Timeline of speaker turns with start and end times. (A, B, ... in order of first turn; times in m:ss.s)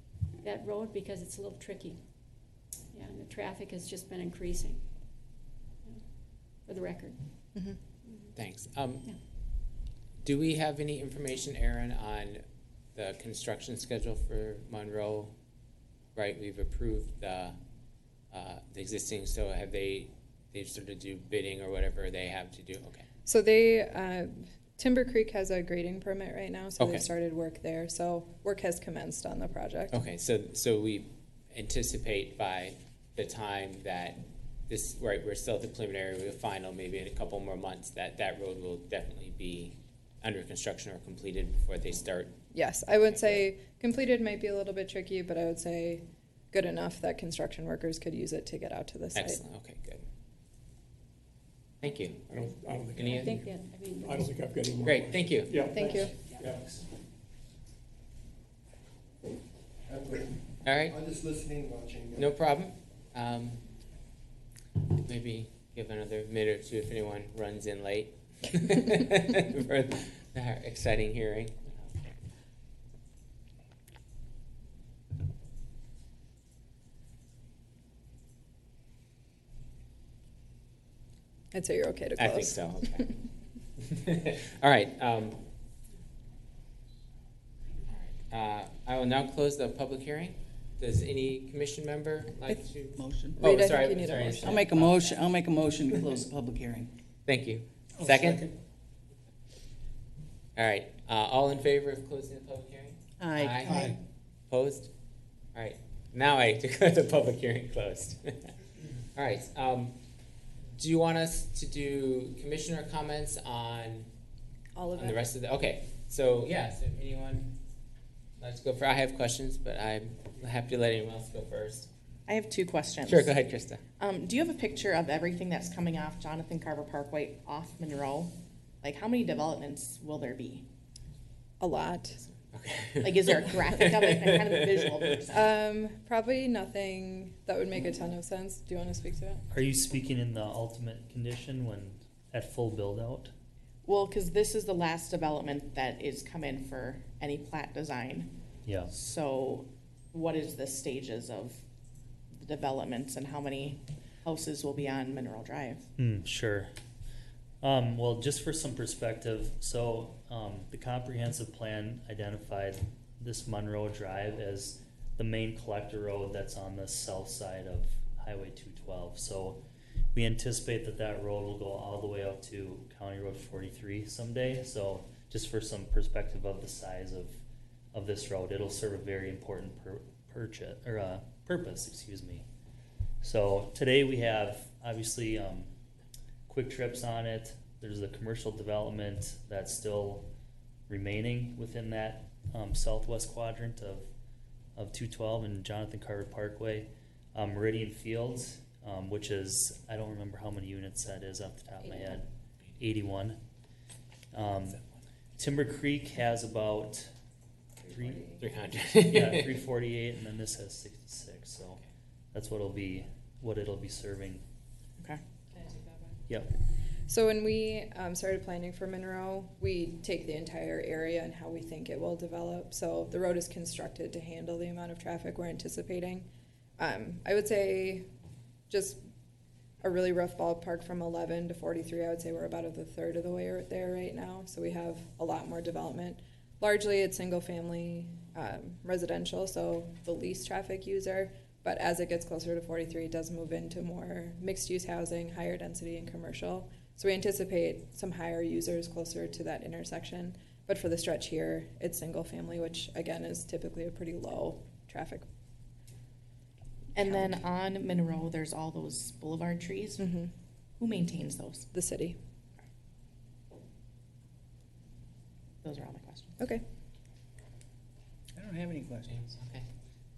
0:00.4-0:02.0 A
0:02.9-0:04.8 A
0:06.7-0:07.2 A
0:08.1-0:08.3 A
0:08.4-0:09.1 B
0:10.2-0:12.4 B
0:13.0-0:15.3 B
0:16.2-0:17.6 B
0:18.3-0:23.0 B
0:23.3-0:30.0 C
0:26.8-0:27.1 B
0:29.9-0:42.3 B
0:42.5-0:49.4 C
0:43.1-0:43.4 B
0:49.2-0:50.0 B
0:51.8-0:52.2 B
0:52.3-0:56.7 D
0:53.0-0:54.3 A
0:53.0-0:53.3 B
0:54.8-0:55.6 B
0:55.7-0:56.1 C
0:59.9-1:02.3 E
1:00.6-1:01.0 B
1:02.2-1:03.6 B
1:05.0-1:11.9 B
1:21.5-1:23.1 C
1:22.2-1:23.1 B
1:23.9-1:25.4 B
1:28.3-1:35.2 B
1:33.0-1:33.4 F
1:33.4-1:34.6 C
1:34.5-1:36.9 F
1:37.3-1:38.5 B
1:40.6-1:43.9 B
1:43.2-1:43.9 F
1:44.5-1:44.9 B
1:45.6-1:48.5 B
1:49.2-1:50.0 B
1:50.8-1:54.1 B
1:54.8-1:55.2 C
1:55.0-1:57.5 B
1:58.4-2:01.9 B
2:02.3-2:03.4 G
2:03.0-2:03.8 B
2:04.0-2:10.7 G
2:11.6-2:12.2 C
2:12.5-2:15.0 B
2:13.0-2:15.5 G
2:15.3-2:19.4 C
2:19.5-2:23.3 H
2:23.8-2:28.4 G
2:28.6-2:28.9 H
2:28.9-2:31.6 G
2:32.4-2:35.9 G
2:36.0-2:36.7 H
2:37.6-2:49.6 H
2:50.1-2:57.4 H
2:57.9-3:02.4 H
3:03.2-3:05.7 H
3:06.5-3:10.3 H
3:10.9-3:14.1 H
3:14.8-3:23.4 H
3:24.3-3:24.8 H
3:25.4-3:27.1 H
3:27.8-3:28.4 H
3:28.4-3:29.6 B
3:29.0-3:31.8 H
3:32.3-3:34.4 H
3:37.1-3:48.1 C
3:48.7-3:49.0 C
3:49.8-4:15.3 C
4:17.0-4:20.0 G
4:17.0-4:17.3 C
4:20.0-4:20.3 C
4:20.8-4:21.7 G
4:21.7-4:22.2 C
4:25.6-4:26.4 G
4:28.4-4:29.1 F
4:29.1-4:29.6 B